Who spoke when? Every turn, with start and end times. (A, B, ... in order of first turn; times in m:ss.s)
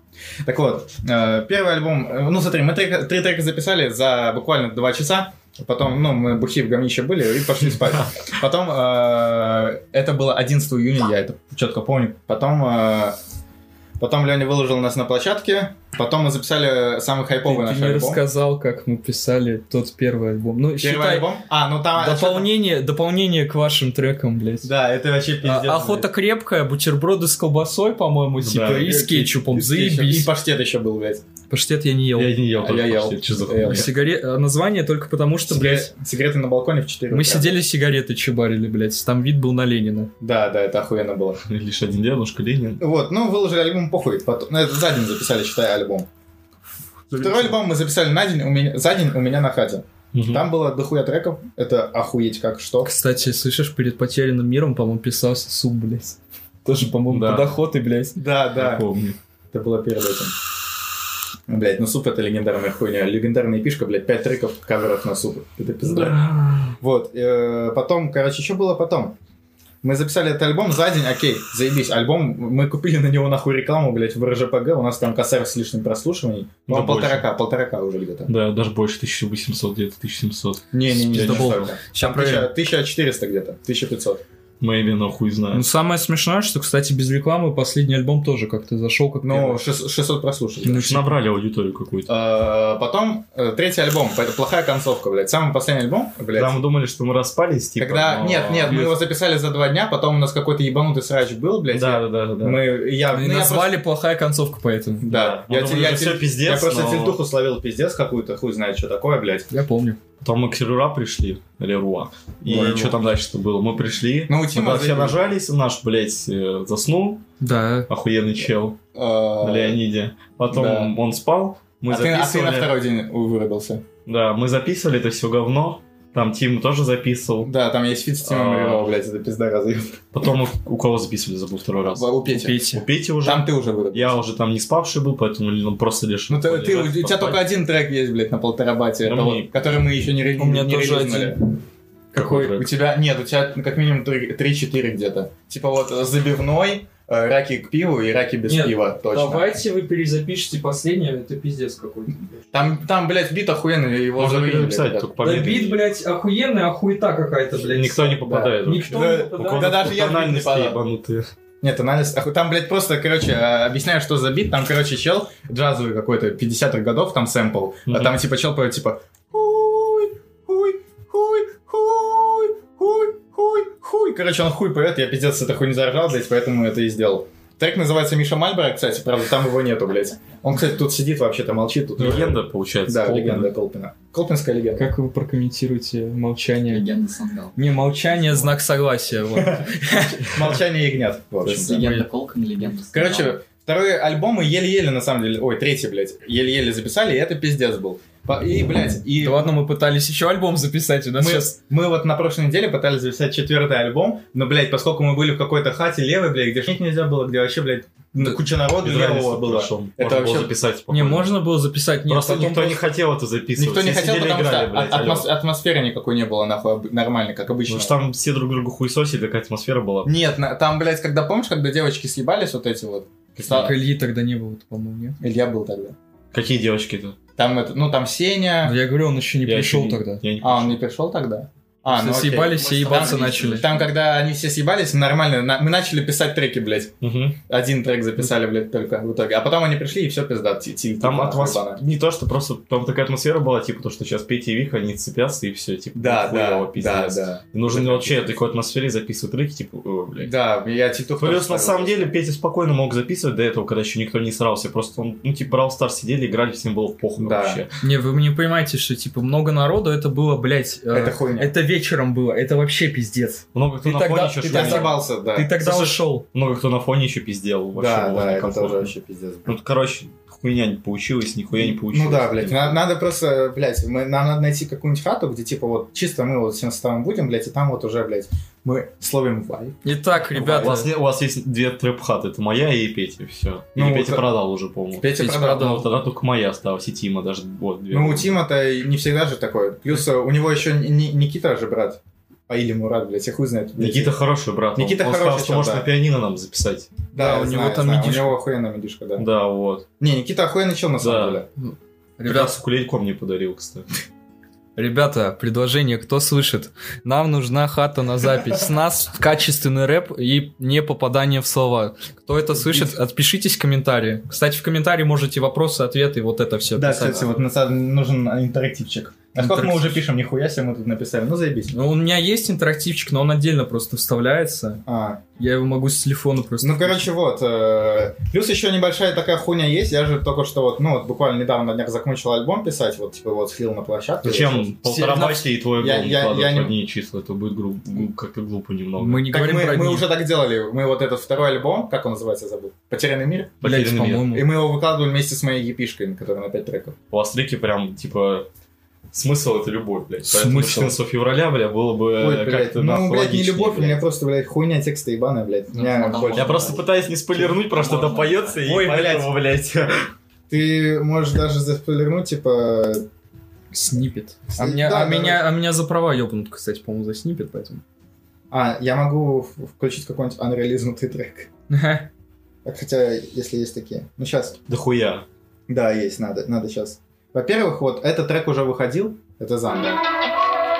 0:00.4-0:13.2 A
0:14.0-0:18.2 A
0:17.4-0:21.3 B
0:20.8-0:22.5 A
0:21.9-0:24.7 B
0:24.6-0:26.1 A
0:25.4-0:30.3 B
0:28.4-0:29.0 C
0:28.8-0:31.2 A
0:31.5-0:32.4 B
0:32.1-0:33.9 C
0:32.6-0:33.9 A
0:33.6-0:35.9 B
0:35.5-0:37.6 A
0:37.1-0:40.1 B
0:40.2-0:41.4 A
0:41.5-0:42.8 C
0:42.8-0:46.1 A
0:47.1-0:47.5 B
0:47.2-0:52.9 A
0:50.1-0:50.5 C
0:52.8-0:58.2 B
0:57.1-0:57.5 C
0:58.2-0:58.8 A
0:58.5-0:59.2 C
0:59.5-1:00.3 A
1:01.5-1:06.2 A
1:05.8-1:06.8 C
1:06.8-1:09.1 A
1:09.8-1:18.3 A
1:16.7-1:17.2 C
1:18.3-1:21.7 C
1:20.7-1:24.2 A
1:20.9-1:22.5 B
1:24.6-1:25.6 C
1:25.5-1:29.6 B
1:29.2-1:30.8 A
1:30.6-1:32.1 C
1:30.6-1:31.1 B
1:32.1-1:36.5 A
1:36.3-1:38.9 C
1:37.8-1:43.7 A
1:41.7-1:42.6 C
1:43.1-1:45.0 B
1:45.0-1:49.5 A
1:45.1-1:47.2 C
1:49.5-1:50.0 B
1:50.2-1:57.2 C
1:52.5-1:53.0 A
1:54.3-1:55.3 A
1:57.4-1:57.9 B
1:57.9-1:58.8 C
1:58.9-1:59.8 A
1:59.4-2:02.7 C
2:00.5-2:00.9 A
2:01.9-2:03.8 A
2:04.0-2:07.5 C
2:07.4-2:10.0 A
2:08.2-2:08.9 C
2:10.1-2:12.1 C
2:11.9-2:12.6 A
2:12.2-2:12.8 B
2:12.7-2:17.4 C
2:13.2-2:14.2 A
2:16.3-2:21.4 A
2:19.0-2:19.5 C
2:20.4-2:21.3 B
2:22.1-2:22.6 B
2:22.1-2:22.7 C
2:22.5-2:29.5 A
2:28.5-2:32.2 B
2:32.5-2:35.2 A
2:34.2-2:35.8 C
2:35.2-2:39.7 B
2:37.6-2:41.3 C
2:38.1-2:40.8 A
2:41.6-3:04.9 A
2:47.9-2:48.2 C
3:02.0-3:03.5 C
3:04.8-3:06.8 B
3:06.7-3:08.5 D
3:07.6-3:10.3 B
3:09.4-3:09.7 A
3:10.3-3:11.8 A
3:11.4-3:11.7 C
3:11.6-3:13.3 D
3:12.9-3:19.5 A
3:19.2-3:21.5 B
3:21.2-3:30.5 A
3:28.8-3:31.3 C
3:30.9-3:32.8 B
3:32.1-3:35.3 C
3:33.6-3:38.0 A
3:37.7-3:40.1 C
3:40.0-3:43.8 A
3:43.4-3:43.7 C
3:43.5-3:45.2 B
3:45.2-3:45.9 A
3:46.3-3:47.2 C
3:47.3-3:48.8 A
3:48.6-3:50.2 B
3:49.4-3:50.8 C
3:50.4-3:56.9 A
3:51.9-3:53.6 B
3:52.5-3:53.9 D
3:57.0-3:57.4 C
3:57.5-4:01.8 A
4:01.0-4:10.3 C
4:05.9-4:08.4 A
4:10.2-4:12.1 A
4:11.2-4:17.7 C
4:17.2-4:17.6 A
4:17.8-4:26.2 B
4:20.9-4:21.5 A
4:23.5-4:25.0 C
4:24.4-4:25.6 A
4:25.6-4:28.9 C
4:27.7-4:29.5 A
4:29.4-4:32.8 C
4:31.5-4:39.8 A
4:39.8-4:40.9 B
4:40.3-4:48.4 C
4:43.8-4:44.3 A
4:45.0-4:45.6 A
4:45.1-4:45.9 B
4:47.9-4:54.2 A
4:53.8-4:56.9 C
4:54.7-4:55.9 A
4:57.1-4:59.2 A
4:57.1-4:58.4 B
4:59.2-4:59.8 C
5:00.0-5:01.5 A
5:01.0-5:01.4 C
5:01.6-5:02.5 B
5:02.2-5:03.9 C
5:04.8-5:17.4 B
5:16.8-5:21.7 A
5:19.4-5:20.0 B
5:21.7-5:24.8 B
5:24.8-5:25.2 A
5:25.4-5:27.1 B
5:26.6-5:34.7 A
5:34.2-5:39.3 C
5:34.8-5:35.5 B
5:35.8-5:36.8 A
5:39.0-5:40.1 B
5:39.2-5:43.6 A
5:43.6-5:44.3 C
5:43.6-5:44.5 B
5:44.2-5:47.0 A
5:47.1-5:48.5 C
5:49.1-5:54.0 C
5:50.3-5:51.0 A
5:52.2-5:56.6 A
5:55.7-5:56.8 D
5:56.3-6:00.1 C
5:57.4-5:58.8 D
5:58.7-5:59.3 A
6:00.5-6:03.0 A
6:03.7-6:07.8 B
6:04.6-6:05.4 A
6:08.5-6:11.5 A
6:11.7-6:12.1 B
6:12.6-6:14.6 A
6:14.7-6:15.2 C
6:15.7-6:20.0 A